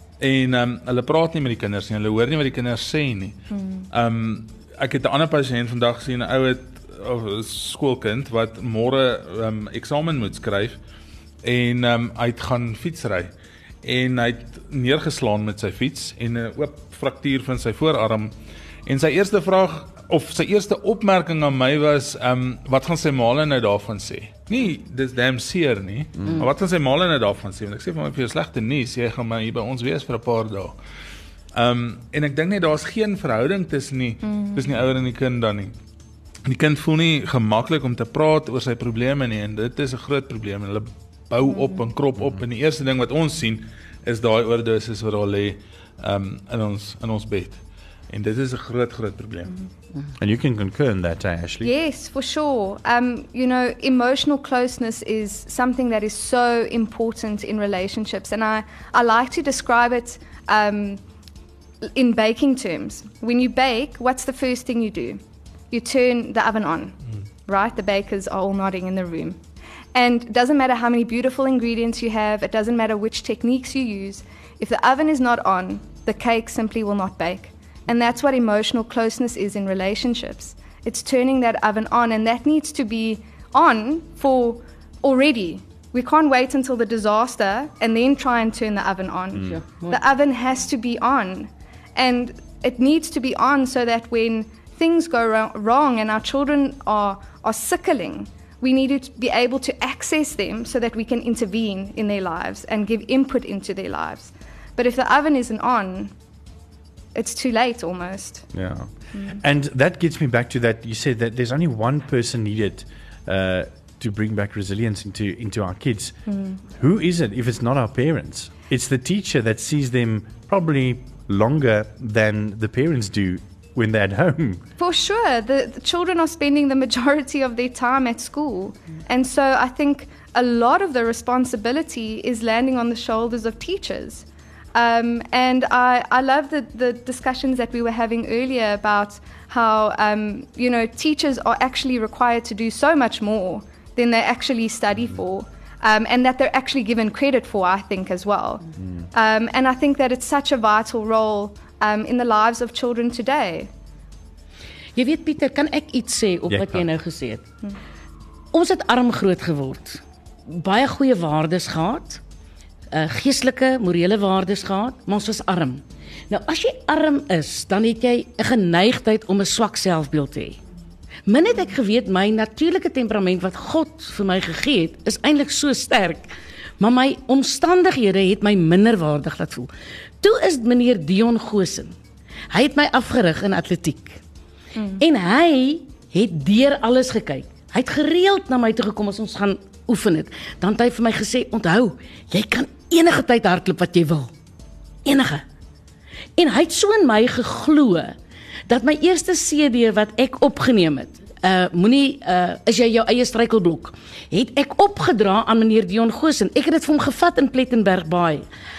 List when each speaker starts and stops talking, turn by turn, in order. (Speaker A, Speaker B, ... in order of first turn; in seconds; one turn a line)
Speaker A: 0.2-3.4
Speaker B: 3.5-3.9
Speaker A: 3.9-10.8
Speaker A: 11.4-13.3
Speaker A: 13.8-18.3
Speaker A: 18.9-30.7
Speaker C: 26.2-26.4
Speaker A: 31.5-35.7
Speaker B: 34.2-34.6
Speaker A: 36.4-49.5
Speaker B: 41.5-41.9
Speaker C: 50.2-51.7
Speaker B: 51.6-61.0
Speaker B: 61.8-65.2
Speaker B: 65.7-69.4
Speaker B: 69.9-106.1
Speaker D: 89.5-90.0
Speaker B: 107.1-108.5
Speaker C: 108.5-124.6
Speaker B: 109.1-109.4
Speaker B: 116.3-116.6
Speaker B: 124.8-153.7
Speaker C: 148.8-149.1
Speaker D: 154.9-157.4
Speaker C: 156.5-156.9
Speaker D: 158.5-160.0
Speaker D: 160.5-162.2
Speaker D: 162.9-170.6
Speaker D: 171.3-179.7
Speaker D: 180.2-181.9
Speaker D: 182.5-184.2
Speaker B: 184.8-185.0
Speaker D: 185.0-194.3
Speaker D: 195.0-195.4
Speaker D: 196.4-198.1
Speaker D: 198.7-208.4